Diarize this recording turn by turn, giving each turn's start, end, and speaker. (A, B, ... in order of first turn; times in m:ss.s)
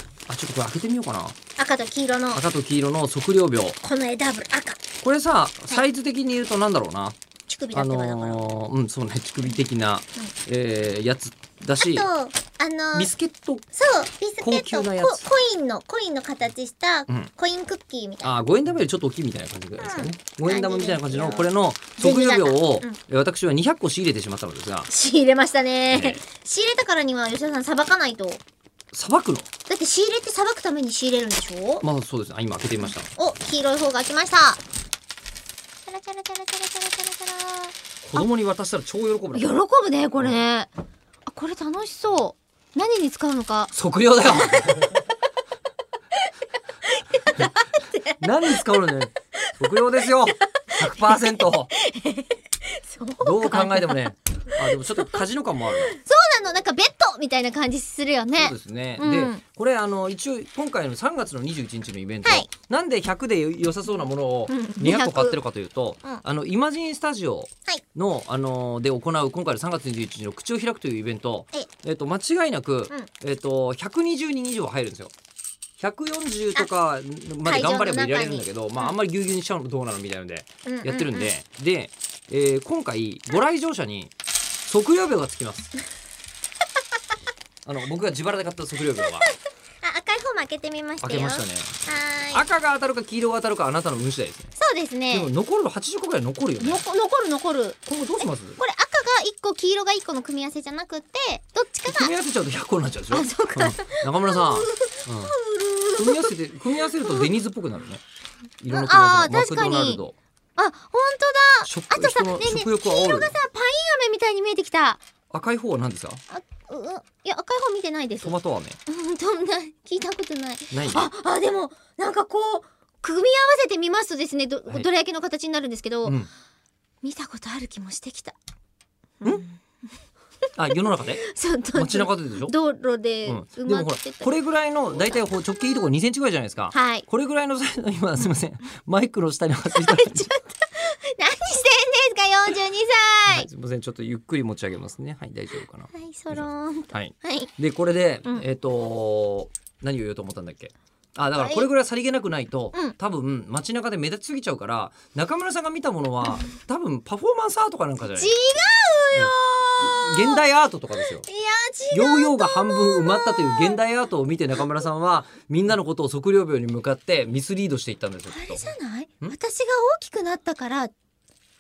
0:00.3-0:01.4 A
0:01.6-0:02.4 B
0:02.3-0:03.8 A
0:03.8-0:04.8 B
0:05.0-0:07.2 A
0:07.5-0:08.4 B
0:07.7-0:12.1 A
0:11.8-0:13.1 B
0:12.9-0:13.6 A
0:13.7-0:18.4 B
0:14.4-0:15.3 A
0:18.2-0:24.9 A
0:19.8-0:23.0 B
0:24.9-0:28.4 B
0:25.9-0:26.2 A
0:28.9-0:29.5 A
0:29.7-0:31.9 B
0:31.8-0:33.1 A
0:33.2-0:34.6 B
0:35.9-0:38.3 B
0:38.0-0:39.5 A
0:39.3-0:40.7 B
0:41.3-0:43.7 B
0:43.7-0:44.8 A
0:44.3-0:44.9 B
0:46.9-0:48.6 B
0:48.2-0:51.7 A
0:49.7-0:55.2 B
0:53.2-0:56.0 A
0:55.9-0:59.4 B
0:58.3-1:15.1 A
1:04.5-1:05.4 B
1:15.8-1:24.1 A
1:17.4-1:19.0 B
1:20.6-1:21.3 B
1:24.7-1:25.7 A
1:27.6-1:29.3 A
1:29.8-1:32.4 B
1:31.0-1:31.8 A
1:32.3-1:34.5 A
1:34.6-1:35.3 B
1:35.1-1:36.8 A
1:36.6-1:42.1 B
1:37.9-1:38.6 A
1:41.9-1:45.3 A
1:43.1-1:46.3 B
1:46.0-1:48.0 A
1:47.0-1:47.3 B
1:48.6-1:50.2 A
1:48.7-1:50.0 B
1:50.6-1:55.0 B
1:51.6-1:53.3 A
1:55.3-1:56.2 A
1:56.3-1:58.3 B
1:58.2-1:58.8 A
1:58.9-2:06.2 B
2:00.7-2:01.1 A
2:07.0-2:08.4 B
2:09.2-2:09.6 B
2:10.6-2:11.2 A
2:11.2-2:14.3 B
2:11.7-2:12.6 A
2:13.2-2:20.3 A
2:15.5-2:15.9 B
2:16.7-2:17.1 B
2:19.7-2:23.5 B
2:23.3-2:38.3 A
2:25.9-2:27.5 B
2:31.4-2:31.7 B
2:38.1-2:40.4 B
2:39.1-2:41.3 A
2:41.2-2:43.8 B
2:41.9-2:48.6 A
2:48.3-2:50.9 B